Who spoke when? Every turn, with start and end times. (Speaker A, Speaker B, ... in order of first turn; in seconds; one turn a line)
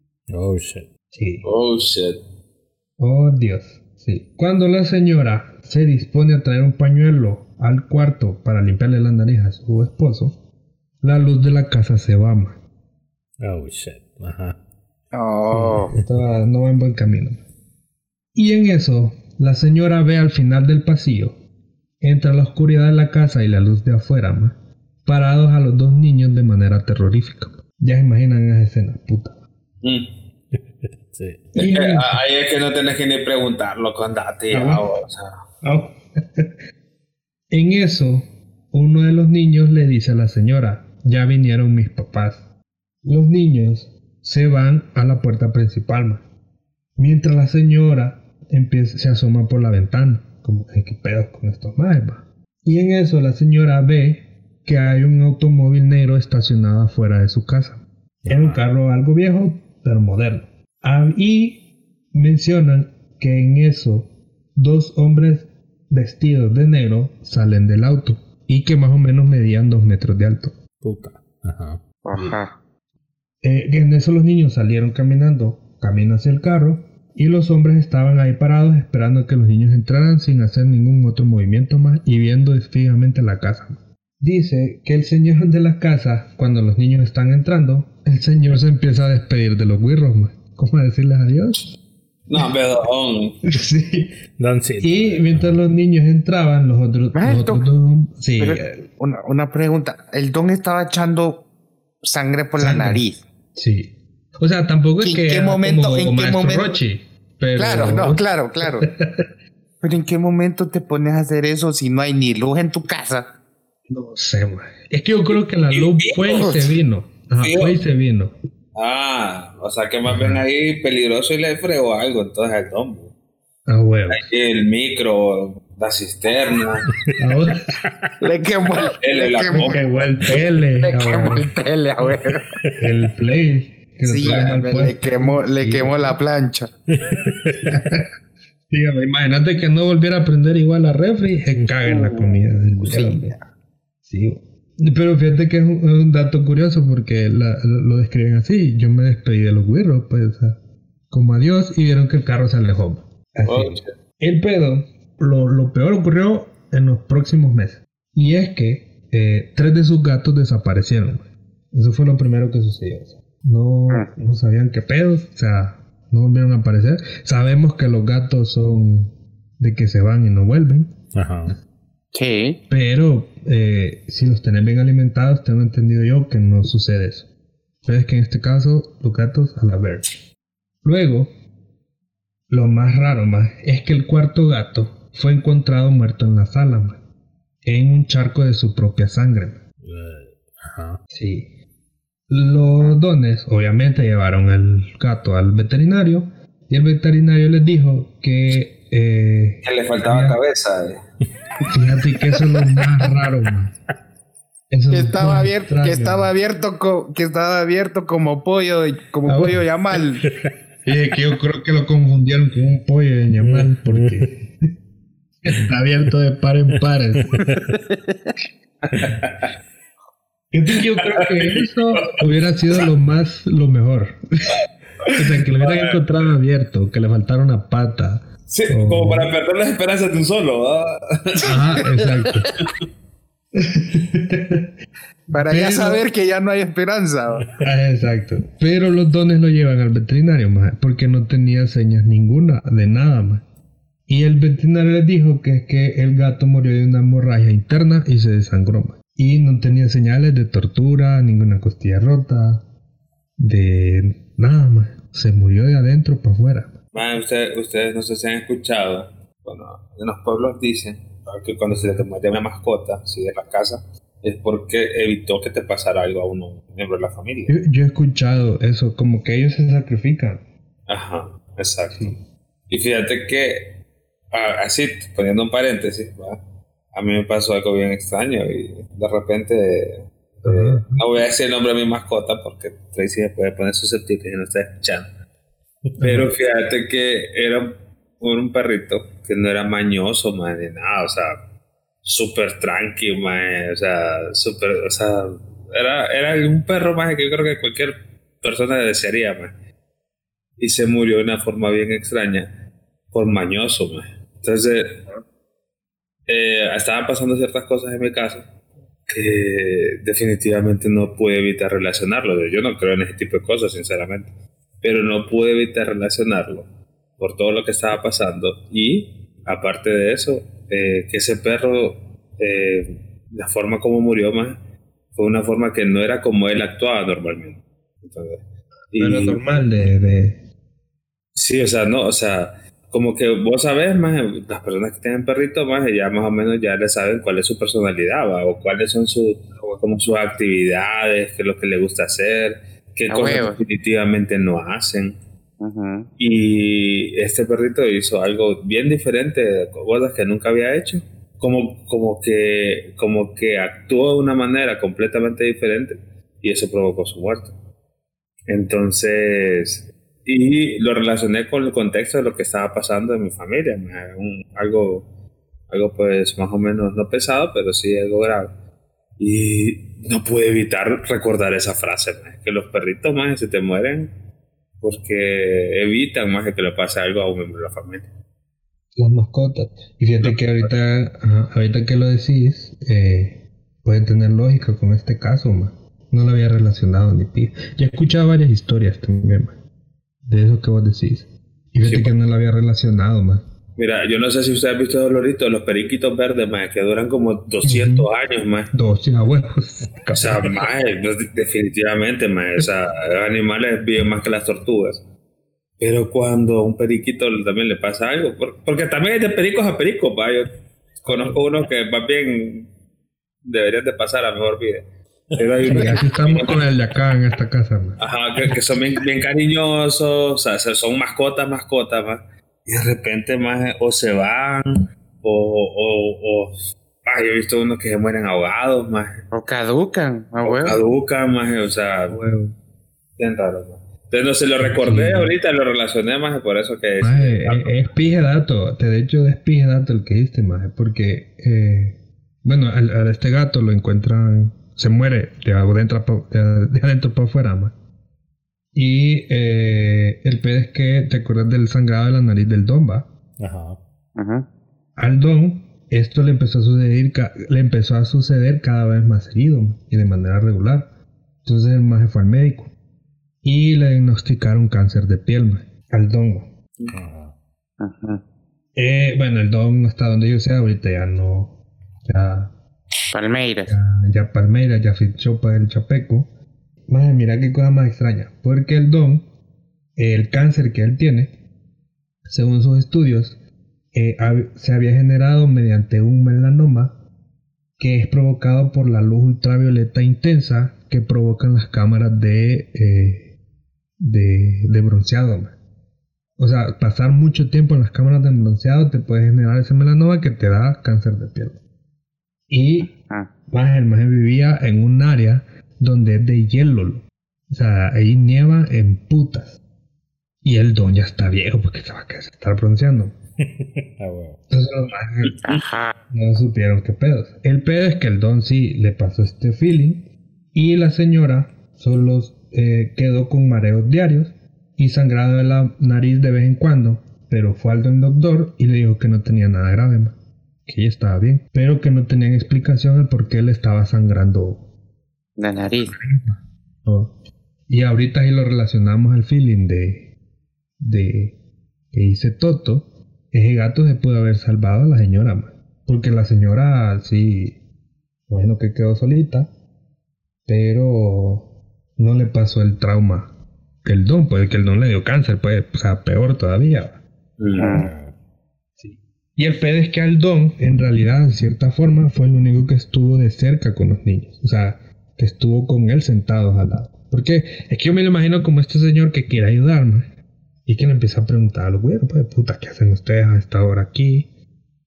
Speaker A: 0.3-0.9
Speaker B: 1.1-1.4
Speaker C: 1.4-2.2
Speaker B: 3.0-10.4
Speaker B: 11.0-12.6
Speaker A: 13.4-14.6
Speaker D: 15.1-15.9
Speaker B: 15.5-17.4
Speaker B: 18.3-21.4
Speaker B: 22.0-29.4
Speaker C: 29.8-30.1
Speaker A: 30.5-31.5
Speaker C: 31.6-35.5
Speaker B: 31.6-32.2
Speaker B: 34.5-34.8
Speaker B: 35.6-36.5
Speaker B: 37.5-42.5
Speaker B: 43.0-46.2
Speaker B: 47.0-70.5
Speaker A: 58.2-58.6
Speaker A: 70.8-71.8
Speaker D: 72.0-72.5
Speaker B: 73.4-91.7
Speaker C: 92.3-93.4
Speaker B: 93.5-94.2
Speaker A: 94.4-95.6
Speaker B: 94.8-98.8
Speaker D: 97.1-97.6
Speaker D: 98.4-101.4
Speaker D: 102.0-103.2
Speaker B: 102.6-103.0
Speaker B: 103.5-109.3
Speaker D: 105.0-106.7
Speaker D: 107.5-108.9
Speaker D: 109.8-113.3
Speaker B: 113.9-118.3
Speaker C: 115.7-116.5
Speaker D: 116.3-116.7
Speaker C: 117.4-117.8
Speaker C: 118.7-123.1
Speaker B: 120.1-120.4
Speaker B: 123.7-124.3
Speaker C: 124.1-126.9
Speaker B: 127.2-127.7
Speaker A: 127.8-128.1
Speaker D: 128.2-129.8
Speaker C: 129.0-130.4
Speaker B: 129.5-131.5
Speaker D: 130.8-132.5
Speaker A: 132.1-132.9
Speaker B: 132.8-136.2
Speaker D: 134.1-136.7
Speaker A: 136.9-137.9
Speaker B: 137.6-138.1
Speaker B: 138.7-143.4
Speaker D: 141.9-143.4
Speaker B: 144.1-170.9
Speaker C: 153.4-153.9
Speaker A: 171.1-171.6
Speaker D: 172.1-172.6
Speaker B: 172.7-177.3
Speaker B: 177.8-180.1
Speaker B: 180.8-181.3
Speaker B: 182.5-187.0
Speaker B: 187.6-189.6
Speaker A: 189.8-191.0
Speaker B: 191.1-191.5
Speaker B: 192.3-200.4
Speaker C: 199.6-201.0
Speaker B: 201.7-203.8
Speaker B: 204.7-206.3
Speaker D: 204.9-210.3
Speaker B: 209.3-209.6
Speaker A: 210.2-210.5
Speaker B: 210.8-214.6
Speaker A: 213.4-214.3
Speaker B: 215.4-217.5
Speaker A: 217.3-217.6
Speaker D: 217.7-218.3
Speaker C: 218.9-219.5
Speaker B: 220.5-224.6
Speaker C: 220.7-222.2
Speaker C: 225.0-226.1
Speaker B: 225.1-229.3
Speaker C: 228.5-231.9
Speaker D: 231.4-232.6
Speaker B: 231.4-232.6
Speaker B: 233.6-234.7
Speaker B: 235.3-236.1
Speaker D: 235.3-237.7
Speaker B: 237.6-243.4
Speaker B: 244.1-252.6
Speaker B: 253.4-256.7
Speaker C: 256.9-267.6
Speaker B: 267.5-270.4
Speaker C: 270.9-272.2
Speaker B: 271.9-272.2
Speaker C: 272.7-273.7
Speaker C: 274.3-276.4
Speaker C: 276.9-285.1
Speaker B: 280.4-281.0
Speaker B: 286.0-286.3
Speaker C: 286.0-291.4
Speaker C: 292.1-299.5
Speaker C: 300.6-302.5
Speaker C: 303.1-305.1
Speaker C: 306.3-308.5
Speaker C: 309.1-324.6
Speaker C: 325.1-329.4
Speaker B: 329.0-330.4
Speaker C: 331.3-345.2
Speaker D: 343.1-343.6
Speaker D: 345.6-346.1
Speaker C: 346.2-357.6
Speaker C: 358.5-365.1
Speaker C: 365.7-368.6
Speaker C: 369.2-374.1
Speaker C: 374.8-378.1
Speaker B: 378.9-389.6
Speaker C: 380.2-380.7
Speaker B: 390.2-393.4
Speaker C: 391.8-392.1
Speaker C: 393.8-398.7
Speaker B: 397.6-398.1
Speaker B: 398.7-400.5
Speaker C: 400.1-405.1
Speaker C: 405.8-412.7
Speaker B: 411.1-411.4
Speaker C: 413.5-414.8
Speaker C: 415.4-416.7
Speaker A: 415.4-415.9
Speaker B: 415.7-418.6
Speaker C: 418.0-429.1
Speaker D: 429.3-430.8
Speaker C: 430.4-432.2
Speaker B: 432.1-432.6
Speaker C: 433.2-437.9
Speaker B: 434.6-435.4
Speaker B: 437.0-447.7
Speaker B: 448.7-453.1
Speaker A: 453.4-453.8
Speaker D: 454.1-454.4
Speaker B: 455.0-460.9
Speaker B: 461.4-462.7
Speaker B: 463.4-466.5
Speaker A: 466.9-467.3
Speaker D: 467.8-468.2
Speaker B: 468.8-472.5
Speaker D: 473.1-473.7
Speaker B: 473.7-476.3
Speaker B: 476.9-479.3
Speaker B: 479.9-481.3
Speaker B: 482.3-483.4
Speaker B: 483.9-487.0
Speaker B: 487.8-493.4
Speaker B: 494.0-495.6
Speaker B: 496.4-501.6
Speaker B: 502.5-502.9
Speaker B: 503.5-509.6
Speaker B: 510.4-513.1
Speaker A: 513.4-514.4
Speaker B: 514.5-515.4
Speaker D: 515.4-515.9
Speaker B: 516.1-534.6
Speaker D: 535.4-535.9
Speaker B: 535.8-537.1
Speaker B: 537.7-540.1
Speaker B: 540.8-541.4
Speaker B: 541.9-547.6
Speaker B: 548.3-549.5
Speaker B: 550.5-553.3
Speaker B: 553.8-557.0
Speaker C: 557.4-557.8
Speaker D: 557.6-557.9
Speaker A: 557.7-558.1
Speaker B: 558.8-570.1
Speaker B: 570.7-574.3